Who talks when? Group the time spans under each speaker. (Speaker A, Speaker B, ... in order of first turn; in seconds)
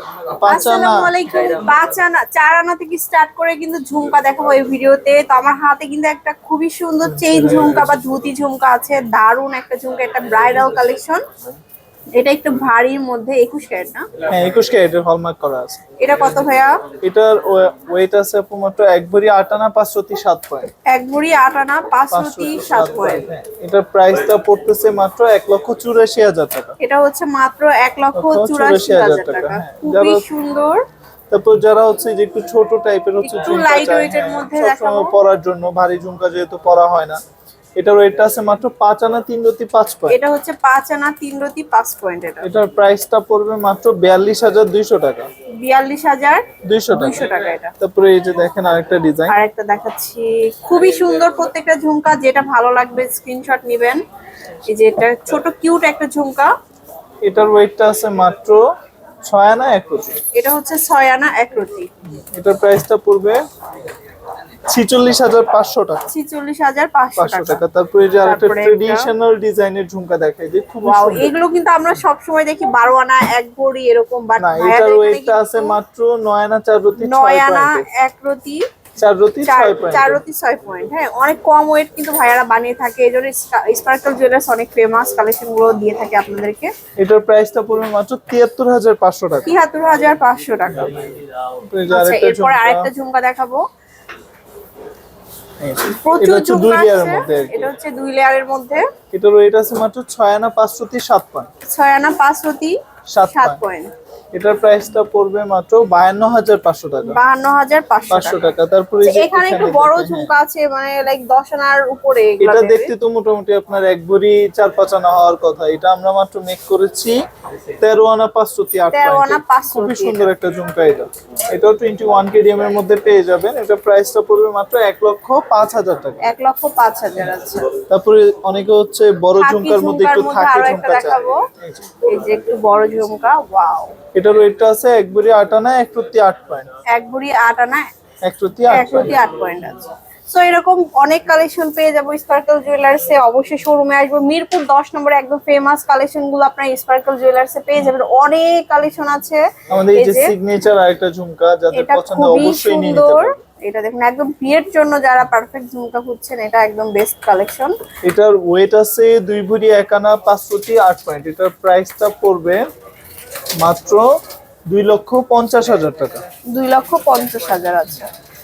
Speaker A: 0.3-1.1, 7.2-7.9, 14.3-15.8, 17.0-20.7, 22.1-26.8, 28.1-30.2, 31.3-37.2, 37.8-40.2, 42.4-45.3, 46.6-47.2, 47.8-49.4, 57.2-58.6, 59.3-60.2, 62.3-63.4, 64.7-66.1, 67.2-71.3, 74.4-77.8, 79.0-80.2, 87.0-89.5, 91.7-92.9, 95.6-97.6, 99.1-101.5, 103.1-103.6, 104.3-107.2, 108.1-110.3, 112.4-117.1, 117.8-126.2, 127.9-131.9, 134.1-136.7, 138.2-139.2, 149.7-153.3, 158.0-162.6, 163.6-164.1, 164.7-166.2
Speaker B: 0.5-11.2, 12.2-14.1, 16.0-16.8, 20.9-23.2, 26.8-30.8, 33.2-35.1, 40.1-42.5, 45.6-47.7, 49.3-54.0, 54.7-56.5, 60.3-61.9, 66.1-67.6, 68.2-69.1, 70.8-75.8, 77.0-78.6, 79.4-86.7, 89.5-91.0, 91.9-93.6, 96.0-98.8, 101.6-103.9, 107.0-108.4, 109.0-112.9, 118.9-120.3, 126.2-127.7, 129.3-131.4, 132.0-133.9, 136.9-137.8, 138.7-150.3, 151.7-157.7, 166.5-168.1